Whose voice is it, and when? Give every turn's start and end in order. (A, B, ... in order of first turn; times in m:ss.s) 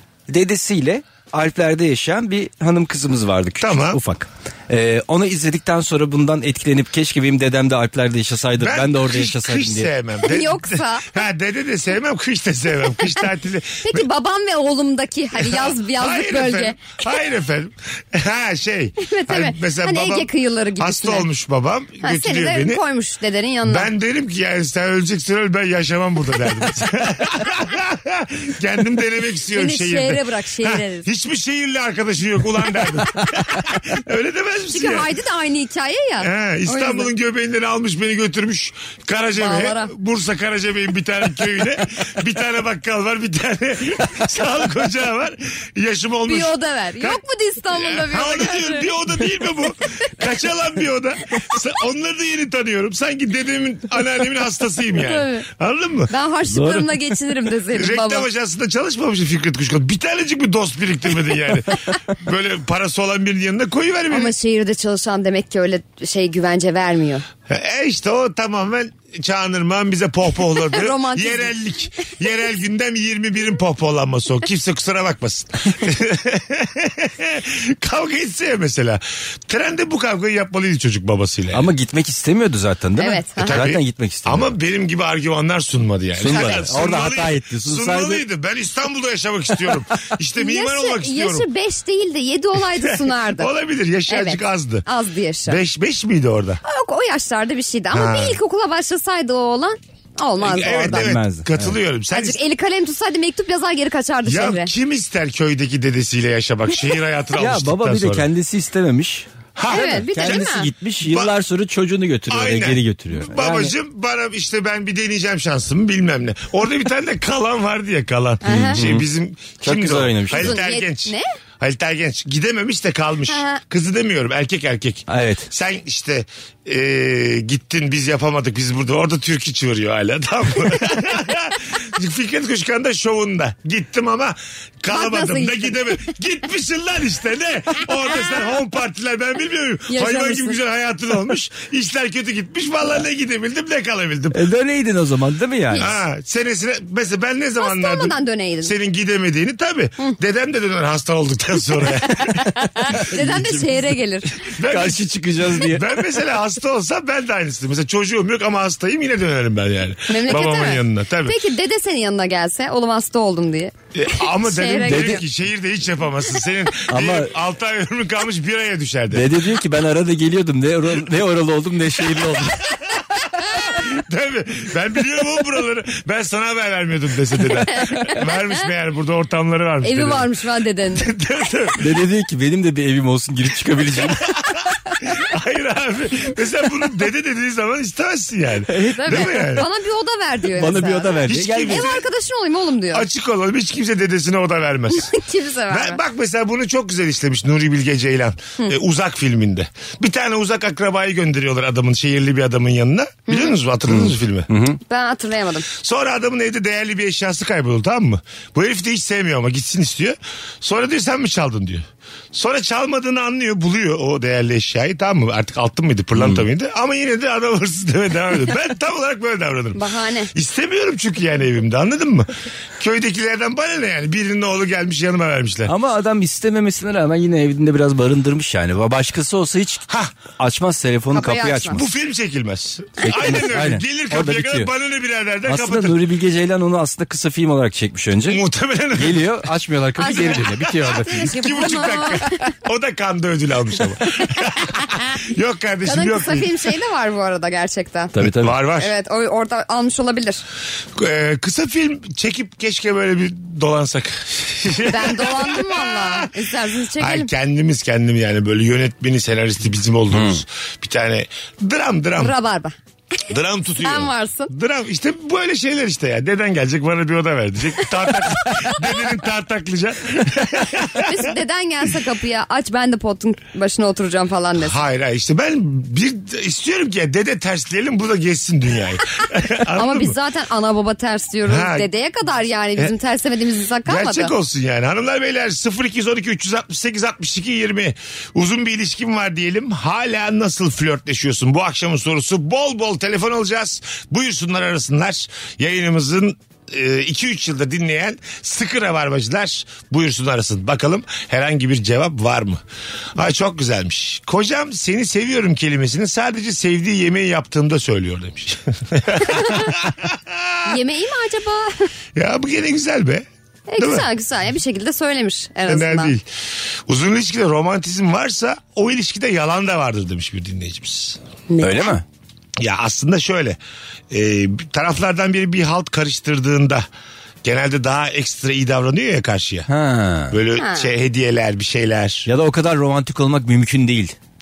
0:00.3-0:09.9 A
0:03.6-0:04.0 B
0:08.6-0:14.0 B
0:10.2-0:11.2 C
0:13.8-0:17.0 C
0:15.4-0:22.8 B
0:19.0-0:21.3 C
0:22.0-0:23.9 C
0:23.7-0:35.1 B
0:29.5-0:31.1 C
0:34.7-0:37.1 C
0:36.2-0:47.2 B
0:39.4-0:39.9 C
0:46.3-0:48.9 C
0:47.8-0:56.1 B
0:54.9-0:55.5 C
0:56.1-0:58.3 C
0:56.5-0:57.0 A
0:57.8-1:04.3 B
1:04.1-1:07.2 C
1:07.5-1:21.7 B
1:10.7-1:11.5 C
1:21.5-1:24.5 A
1:23.0-1:23.6 C
1:23.4-1:31.5 B
1:26.2-1:28.2 A
1:26.3-1:26.6 C
1:30.4-1:33.5 C
1:32.8-1:34.9 B
1:34.1-1:35.6 C
1:35.5-1:36.6 B
1:36.6-1:41.1 C
1:37.9-1:38.4 B
1:40.4-1:42.4 B
1:40.9-1:41.8 A
1:42.1-1:44.7 C
1:44.2-1:48.3 B
1:47.4-1:53.7 A
1:49.6-1:50.5 B
1:49.7-1:50.7 C
1:51.0-1:51.3 B
1:52.3-2:24.4 B
1:58.4-1:58.8 C
1:58.5-1:59.0 A
1:59.6-2:00.6 A
2:00.3-2:01.3 C
2:03.3-2:03.6 C
2:05.1-2:05.5 A
2:14.9-2:15.8 C
2:19.9-2:20.6 C
2:24.3-2:25.9 A
2:25.7-2:26.0 C
2:25.8-2:32.5 B
2:27.6-2:28.7 C
2:31.8-2:34.4 C
2:32.9-2:34.0 A
2:34.6-2:35.0 B
2:34.7-2:35.9 A
2:35.6-2:41.4 B
2:40.1-2:45.2 C
2:43.9-2:49.3 B
2:44.9-2:45.2 A
2:46.9-2:47.3 A
2:49.1-2:52.8 A
2:53.4-3:00.3 B
2:57.8-2:58.3 C
2:59.8-3:01.1 C
3:01.0-3:01.8 B
3:01.8-3:04.2 A
3:04.3-3:09.7 B
3:08.7-3:09.4 A
3:08.9-3:13.1 C
3:10.6-3:11.9 A
3:11.3-3:12.0 B
3:12.9-3:15.1 B
3:15.0-3:16.0 C
3:15.7-3:24.5 B
3:23.3-3:23.5 C
3:23.9-3:24.8 A
3:24.9-3:25.7 C
3:25.8-3:45.7 B
3:36.2-3:36.4 A
3:39.8-3:40.3 C
3:45.7-3:49.9 A
3:49.9-3:50.2 B
3:50.4-3:51.8 A
3:51.2-3:51.8 C
3:51.7-3:56.0 B
3:53.0-3:54.7 A
3:55.5-3:58.4 A
3:58.3-3:59.4 B
3:59.0-4:01.6 A
4:00.0-4:02.5 C
4:00.1-4:06.6 B
4:05.8-4:08.1 C
4:08.1-4:08.6 A
4:08.2-4:08.9 B
4:08.8-4:10.4 C
4:10.9-4:16.3 B
4:14.9-4:17.3 C
4:17.0-4:22.3 B
4:20.1-4:20.4 A
4:22.2-4:22.7 C
4:23.3-4:31.3 B
4:23.8-4:24.5 C
4:30.9-4:34.8 C
4:34.6-4:40.2 B
4:39.8-4:44.3 C
4:41.5-4:41.9 B
4:43.9-5:02.6 B
5:03.2-5:10.7 B
5:09.2-5:09.7 C
5:10.7-5:11.8 C
5:12.2-5:13.3 B
5:13.7-5:16.1 C
5:13.8-5:14.1 B
5:15.7-5:16.3 B
5:16.9-5:21.2 B
5:21.5-5:21.9 C
5:21.6-5:22.0 A
5:22.6-5:23.6 B
5:24.1-5:26.9 B
5:27.4-5:29.7 B
5:29.7-5:30.4 A
5:30.3-5:32.3 B
5:30.6-5:30.9 C
5:32.3-5:34.2 A